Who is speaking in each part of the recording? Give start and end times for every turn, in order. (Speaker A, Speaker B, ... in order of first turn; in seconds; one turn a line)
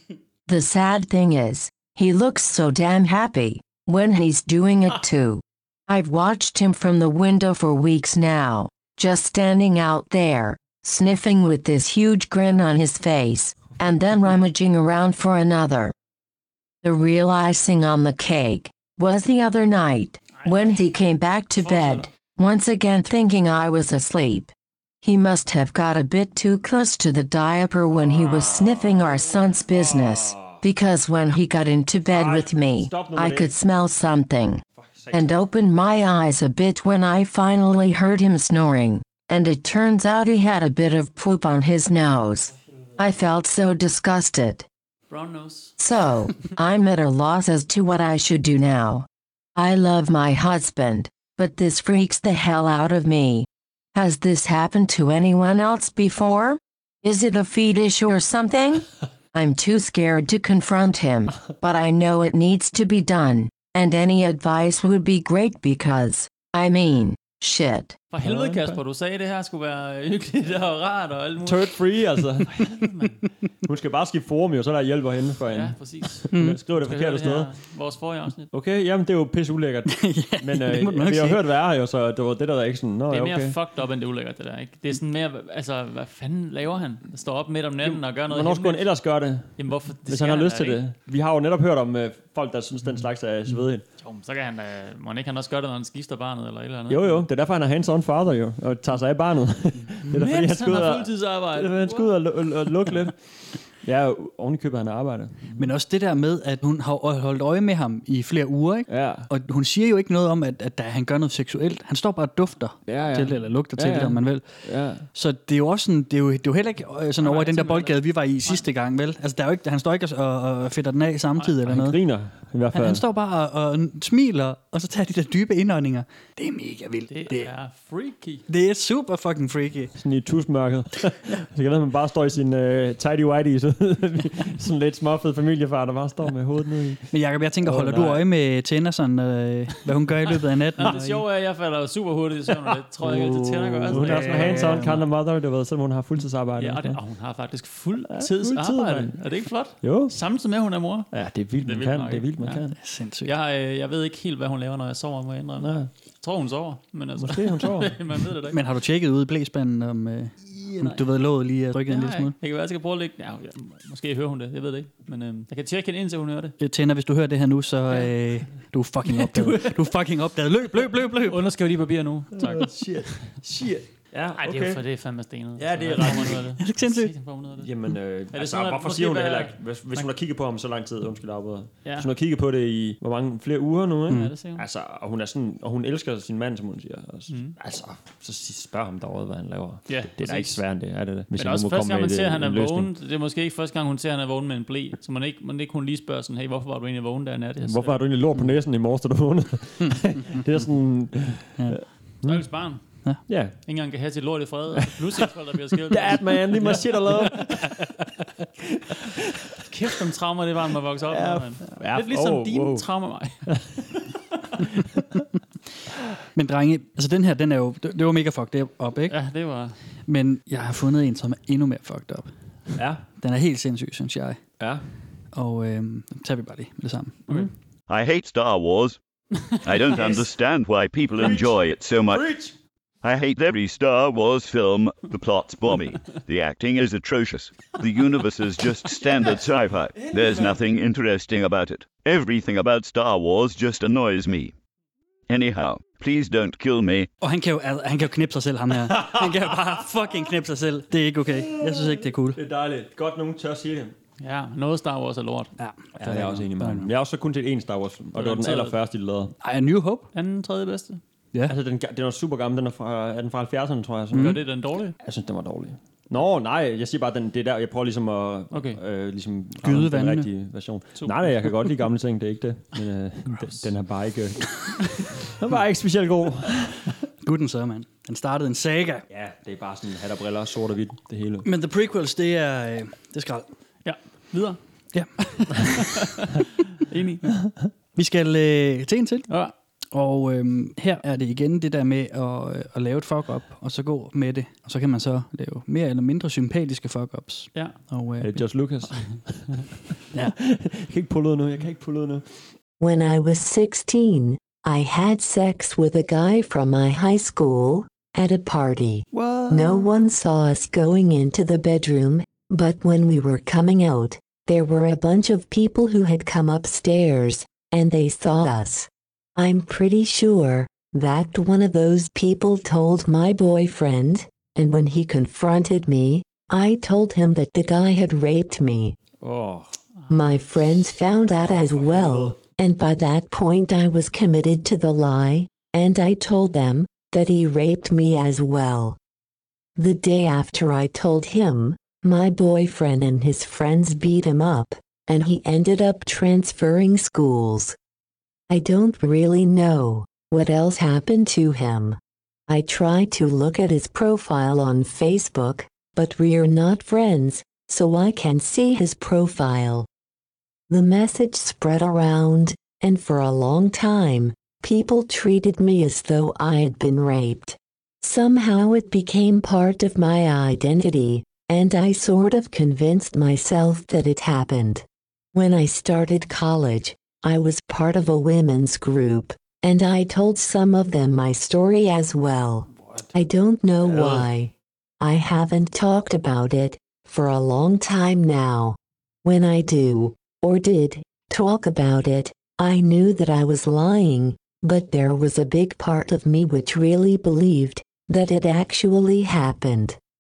Speaker A: 0.5-15.9
Speaker A: 16.8-24.5
Speaker B: 20.4-20.7
Speaker B: 21.6-22.1
Speaker A: 25.0-44.7
Speaker C: 28.0-30.6
Speaker C: 32.1-33.5
Speaker C: 34.8-35.4
Speaker B: 45.1-45.7
Speaker A: 45.8-68.0
Speaker B: 68.1-71.8
Speaker C: 68.2-68.8
Speaker C: 71.4-72.7
Speaker B: 72.5-73.2
Speaker C: 73.6-77.5
Speaker B: 75.5-78.5
Speaker D: 76.3-76.6
Speaker C: 78.5-83.6
Speaker D: 79.9-81.4
Speaker B: 83.1-88.9
Speaker C: 87.8-93.8
Speaker B: 89.6-90.8
Speaker B: 94.0-97.2
Speaker C: 96.9-103.2
Speaker B: 100.1-102.2
Speaker C: 103.7-105.7
Speaker D: 105.6-114.6
Speaker C: 108.9-109.3
Speaker C: 112.9-115.1
Speaker D: 115.1-122.0
Speaker B: 117.2-118.7
Speaker C: 121.7-123.0
Speaker D: 122.7-127.5
Speaker B: 127.1-128.4
Speaker D: 128.5-129.9
Speaker C: 130.0-138.2
Speaker D: 137.1-141.2
Speaker B: 140.8-145.0
Speaker C: 143.0-147.0
Speaker D: 143.8-145.1
Speaker B: 146.6-152.7
Speaker C: 148.1-149.2
Speaker C: 149.8-150.2
Speaker C: 151.1-152.8
Speaker D: 152.8-153.3
Speaker B: 153.2-158.6
Speaker C: 155.6-155.9
Speaker C: 157.2-158.0
Speaker D: 158.5-162.3
Speaker B: 160.8-161.1
Speaker B: 161.9-166.6
Speaker D: 166.6-171.5
Speaker B: 169.1-170.0
Speaker B: 171.2-173.2
Speaker C: 172.4-174.8
Speaker B: 174.4-180.1
Speaker C: 175.6-176.6
Speaker D: 176.0-177.1
Speaker C: 177.6-192.9
Speaker B: 181.8-182.1
Speaker D: 184.1-184.4
Speaker B: 184.1-184.7
Speaker B: 187.3-187.6
Speaker B: 189.9-190.6
Speaker B: 191.3-198.0
Speaker C: 197.6-202.7
Speaker D: 201.6-201.9
Speaker B: 202.2-203.0
Speaker C: 203.3-203.6
Speaker B: 203.7-207.6
Speaker C: 204.8-205.2
Speaker C: 205.9-207.9
Speaker C: 208.8-209.5
Speaker B: 209.7-213.5
Speaker C: 211.1-212.9
Speaker C: 213.5-213.8
Speaker D: 216.3-219.2
Speaker B: 219.1-219.8
Speaker D: 220.1-222.3
Speaker C: 222.8-223.1
Speaker D: 223.2-224.4
Speaker D: 225.3-227.3
Speaker E: 227.9-229.0
Speaker E: 229.6-232.3
Speaker B: 229.9-230.2
Speaker C: 229.9-230.3
Speaker C: 231.2-232.5
Speaker E: 233.0-244.5
Speaker C: 239.9-240.6
Speaker E: 245.3-247.1
Speaker D: 247.2-252.4
Speaker C: 248.9-249.2
Speaker C: 251.5-253.9
Speaker B: 254.2-255.5
Speaker D: 255.6-256.9
Speaker C: 256.0-259.3
Speaker B: 258.1-258.8
Speaker D: 259.4-260.1
Speaker B: 260.1-261.0
Speaker C: 261.5-264.4
Speaker D: 264.1-264.4
Speaker B: 264.1-265.0
Speaker C: 265.0-276.9
Speaker B: 268.5-268.8
Speaker D: 269.6-270.3
Speaker B: 271.0-271.7
Speaker D: 277.2-279.1
Speaker C: 279.1-281.5
Speaker D: 281.4-283.5
Speaker B: 283.8-284.6
Speaker D: 284.9-285.8
Speaker B: 286.0-286.3
Speaker B: 286.9-287.3
Speaker D: 288.0-289.3
Speaker D: 289.9-298.4
Speaker C: 298.2-299.6
Speaker C: 300.4-302.4
Speaker F: 302.8-329.0
Speaker C: 309.1-309.9
Speaker C: 329.2-329.7
Speaker F: 330.1-339.0
Speaker C: 331.8-332.3
Speaker F: 339.8-347.8
Speaker F: 348.5-359.9
Speaker F: 360.7-400.0
Speaker C: 383.8-384.3